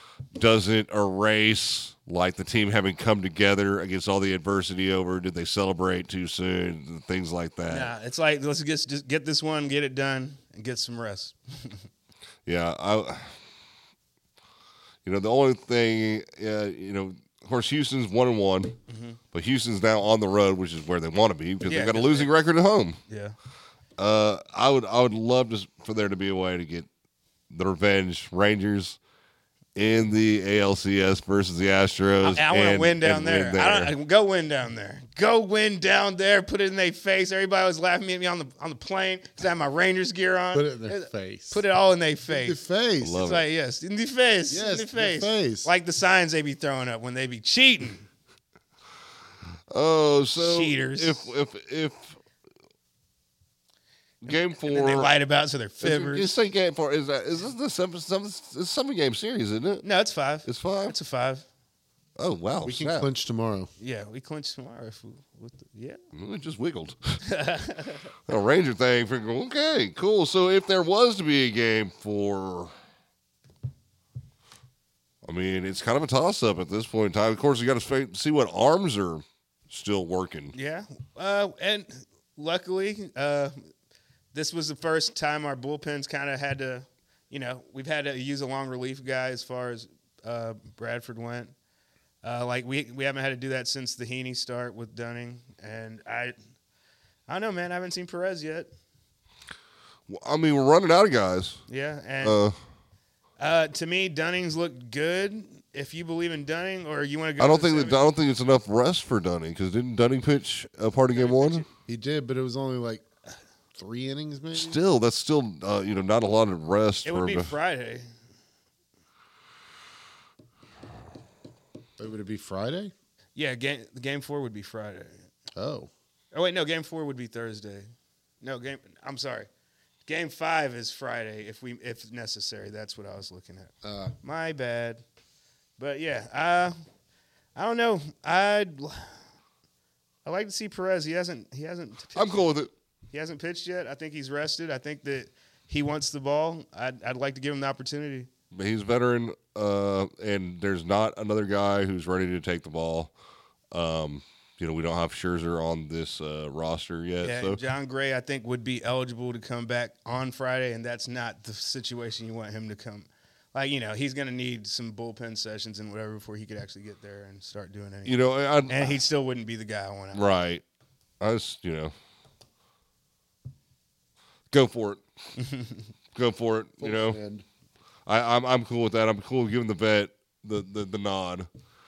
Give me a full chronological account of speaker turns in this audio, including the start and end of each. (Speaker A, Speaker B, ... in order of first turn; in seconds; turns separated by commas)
Speaker A: 0.3-7.9, Speaker B: 7.7-11.8, Speaker A: 12.4-13.3, Speaker A: 15.0-18.8, Speaker B: 18.9-19.2, Speaker A: 19.3-23.0, Speaker B: 21.6-22.3, Speaker B: 23.1-23.3, Speaker A: 24.0-26.9, Speaker A: 27.5-29.0, Speaker A: 29.7-33.9, Speaker B: 32.2-42.6, Speaker C: 40.5-41.6, Speaker C: 42.3-43.2, Speaker A: 43.0-43.4, Speaker B: 43.1-48.0, Speaker C: 44.5-45.7, Speaker A: 49.7-52.2, Speaker B: 50.4-51.3, Speaker A: 54.2-55.1, Speaker B: 54.3-56.3, Speaker A: 55.8-59.9, Speaker B: 59.8-61.4, Speaker A: 60.4-60.9, Speaker A: 62.2-63.0, Speaker C: 62.6-63.7, Speaker B: 63.8-66.0, Speaker A: 66.1-67.2, Speaker B: 67.2-68.1, Speaker A: 68.3-72.7, Speaker A: 75.2-80.5, Speaker B: 80.5-83.5, Speaker B: 84.3-91.5, Speaker B: 92.2-96.3, Speaker B: 97.3-98.7, Speaker A: 100.1-101.6, Speaker B: 101.7-102.4, Speaker A: 102.2-102.5, Speaker B: 103.4-108.0, Speaker A: 107.4-111.6, Speaker B: 111.1-111.6, Speaker C: 111.9-113.0, Speaker C: 113.7-114.8, Speaker A: 114.5-117.5, Speaker B: 117.0-118.0, Speaker C: 122.0-122.9, Speaker B: 123.3-125.1, Speaker C: 125.5-125.9, Speaker B: 126.3-127.9, Speaker B: 128.4-129.5, Speaker B: 130.1-135.0, Speaker C: 133.8-134.1, Speaker B: 135.8-136.8, Speaker B: 137.5-139.1, Speaker B: 140.2-142.5, Speaker A: 142.2-142.7, Speaker B: 143.1-148.3, Speaker A: 148.5-153.1, Speaker A: 153.7-157.6, Speaker B: 157.2-168.1, Speaker A: 168.1-169.0, Speaker B: 168.7-170.2, Speaker A: 170.1-170.6, Speaker A: 171.2-171.9, Speaker A: 174.5-175.0, Speaker B: 175.4-175.8, Speaker A: 176.1-177.2, Speaker C: 176.8-177.4, Speaker A: 178.1-181.5